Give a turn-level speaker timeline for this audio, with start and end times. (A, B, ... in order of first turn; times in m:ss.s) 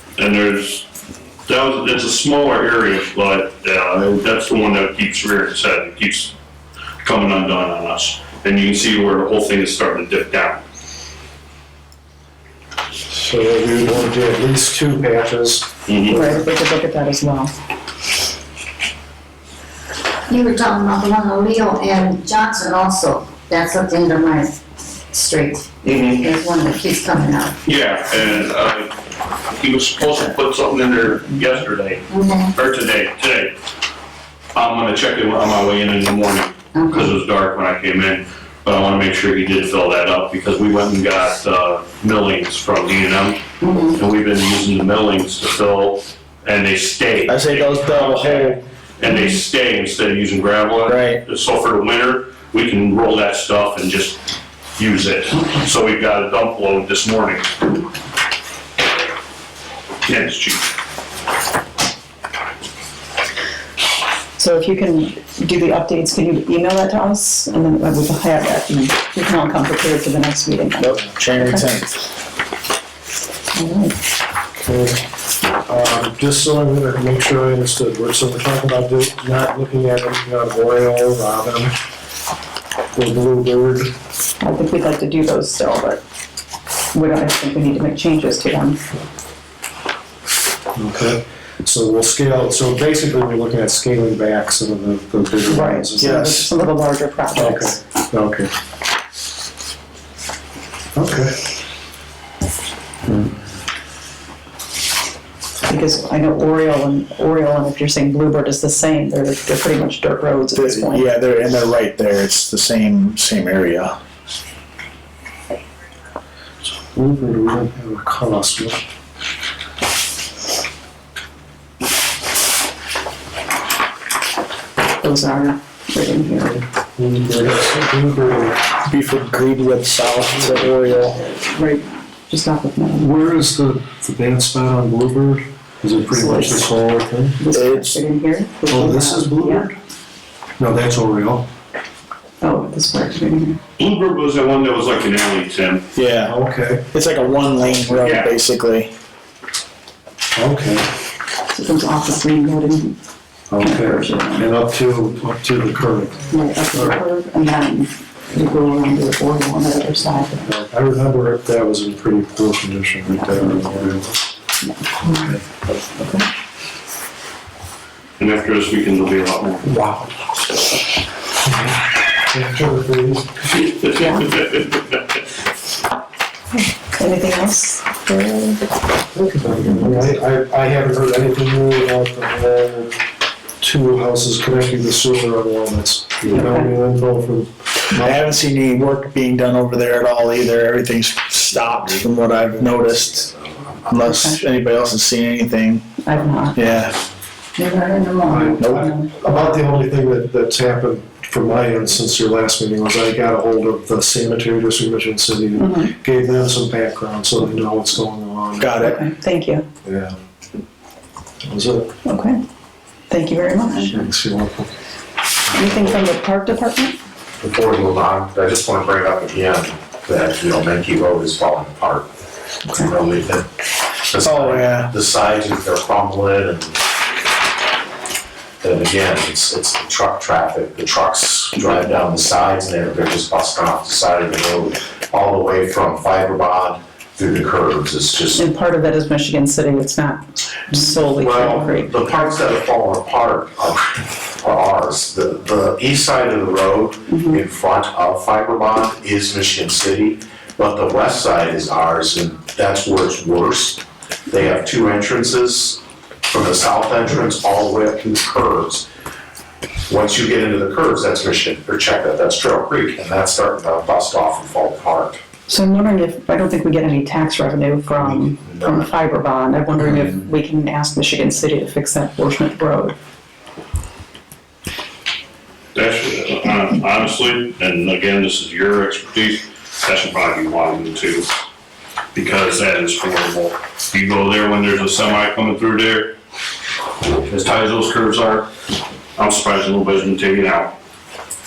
0:00.2-0:00.8 A
0:01.5-0:06.3 A
0:07.0-0:10.6 A
0:13.1-0:16.5 B
0:15.9-0:16.2 A
0:16.1-0:17.5 C
0:20.3-0:27.6 D
0:25.8-0:26.3 A
0:27.6-0:28.9 A
0:29.5-0:33.5 A
0:32.1-0:32.6 D
0:34.6-0:54.2 A
0:36.7-0:37.1 D
0:43.6-0:44.0 D
0:47.3-0:48.6 E
0:50.8-0:51.2 E
0:54.8-0:57.6 A
1:00.1-1:00.6 A
1:04.4-1:11.7 C
1:10.8-1:11.9 E
1:13.6-1:14.0 C
1:14.6-1:15.0 B
1:15.7-1:21.7 B
1:22.9-1:23.9 B
1:24.4-1:26.0 C
1:26.9-1:28.8 C
1:30.8-1:36.5 B
1:35.5-1:37.8 C
1:36.0-1:36.5 E
1:37.3-1:38.5 B
1:41.0-1:41.4 B
1:45.7-1:51.1 C
1:50.6-1:54.0 E
1:56.9-1:58.8 B
2:05.0-2:06.6 C
2:07.0-2:08.6 B
2:08.8-2:11.2 E
2:10.9-2:13.1 C
2:12.9-2:17.4 B
2:16.1-2:16.7 C
2:17.4-2:19.7 C
2:17.5-2:18.0 E
2:18.7-2:19.7 B
2:20.6-2:21.5 B
2:22.4-2:23.6 C
2:23.8-2:25.8 A
2:26.0-2:26.3 E
2:26.2-2:26.8 B
2:26.9-2:28.9 E
2:27.8-2:28.3 A
2:30.3-2:30.9 B
2:31.5-2:33.0 C
2:33.5-2:37.0 B
2:33.6-2:34.5 C
2:36.3-2:40.5 C
2:40.4-2:44.2 B
2:43.2-2:43.6 C
2:44.6-2:45.4 C
2:46.0-2:46.3 C
2:48.2-2:49.7 A
2:51.4-2:51.8 B
2:52.3-2:53.6 B
2:54.0-2:54.3 C
2:56.5-2:58.6 C
2:59.2-3:03.0 B
2:59.7-3:00.0 C
3:03.6-3:08.2 B
3:06.3-3:06.7 C
3:07.9-3:13.3 E
3:11.8-3:13.9 F
3:13.9-3:15.9 E
3:14.0-3:14.4 C
3:16.0-3:16.6 C
3:16.5-3:17.0 E
3:17.6-3:18.7 D
3:18.2-3:28.7 B
3:18.4-3:19.5 C
3:18.6-3:18.8 E
3:25.6-3:25.9 C
3:28.6-3:29.0 E
3:28.8-3:29.7 C
3:29.8-3:30.2 B
3:31.4-3:31.9 B
3:32.0-3:32.4 C
3:33.1-3:34.0 C
3:33.7-3:34.7 B
3:35.5-3:37.0 C
3:37.4-3:42.1 F
3:42.7-3:43.5 F
3:44.1-3:46.8 F
3:44.2-3:44.9 E
3:48.6-3:58.4 F
3:58.4-4:02.1 C
4:01.2-4:18.9 F
4:07.1-4:07.4 C
4:19.9-4:25.2 F
4:25.5-4:33.0 C
4:28.1-4:28.9 F
4:35.8-4:41.3 A
4:42.2-4:46.1 A
4:47.1-4:48.5 A
4:49.2-4:50.8 A